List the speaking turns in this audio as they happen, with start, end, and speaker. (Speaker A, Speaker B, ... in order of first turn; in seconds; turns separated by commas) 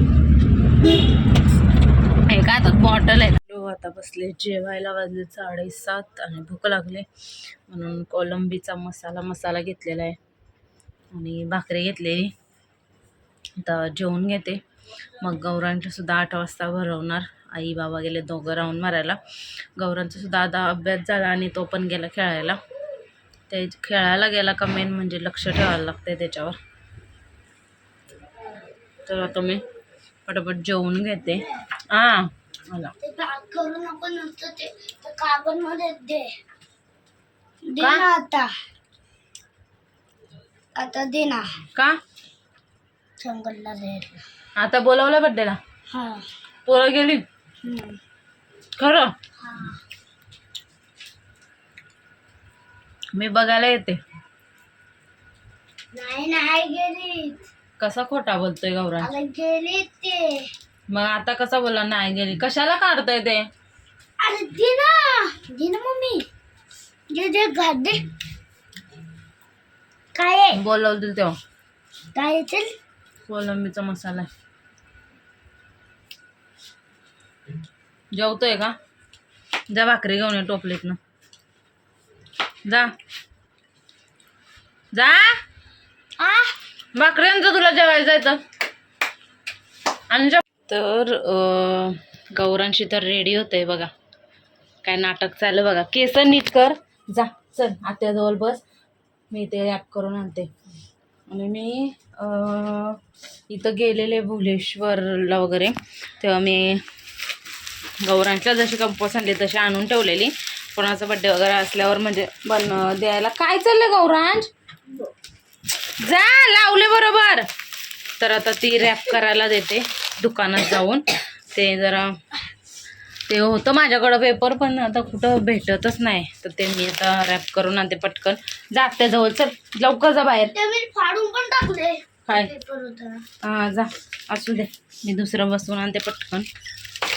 Speaker A: 2.3-7.1, Speaker A: 7.7-10.2, Speaker A: 11.1-12.3, Speaker A: 13.6-14.6, Speaker A: 15.2-19.2, Speaker A: 19.8-22.6, Speaker A: 23.5-26.6, Speaker A: 29.1-29.6, Speaker A: 30.3-32.9, Speaker B: 33.0-36.3, Speaker B: 37.7-38.5, Speaker A: 37.8-38.1, Speaker B: 40.8-41.5, Speaker B: 43.2-44.2, Speaker A: 44.6-45.6, Speaker B: 45.9-46.3, Speaker A: 46.7-47.2, Speaker B: 47.6-48.0, Speaker A: 48.8-49.1, Speaker B: 49.4-49.8, Speaker A: 53.1-54.0, Speaker B: 55.9-57.4, Speaker A: 57.8-59.1, Speaker B: 59.0-60.4, Speaker A: 60.9-63.5, Speaker B: 64.2-66.3, Speaker B: 67.1-68.0, Speaker B: 70.1-70.6, Speaker A: 70.5-71.4, Speaker B: 72.2-72.7, Speaker A: 73.3-74.3, Speaker A: 78.1-78.8, Speaker A: 79.7-81.0, Speaker A: 82.7-82.9, Speaker A: 84.9-85.4, Speaker B: 86.2-86.5, Speaker A: 87.0-88.4, Speaker A: 90.1-93.9, Speaker A: 94.8-98.6, Speaker A: 99.3-100.5, Speaker A: 101.3-103.0, Speaker A: 103.5-106.8, Speaker A: 108.0-114.5, Speaker A: 116.0-117.5, Speaker A: 118.2-122.2, Speaker A: 123.3-130.6, Speaker B: 130.5-133.2, Speaker A: 132.3-132.5, Speaker A: 133.4-136.5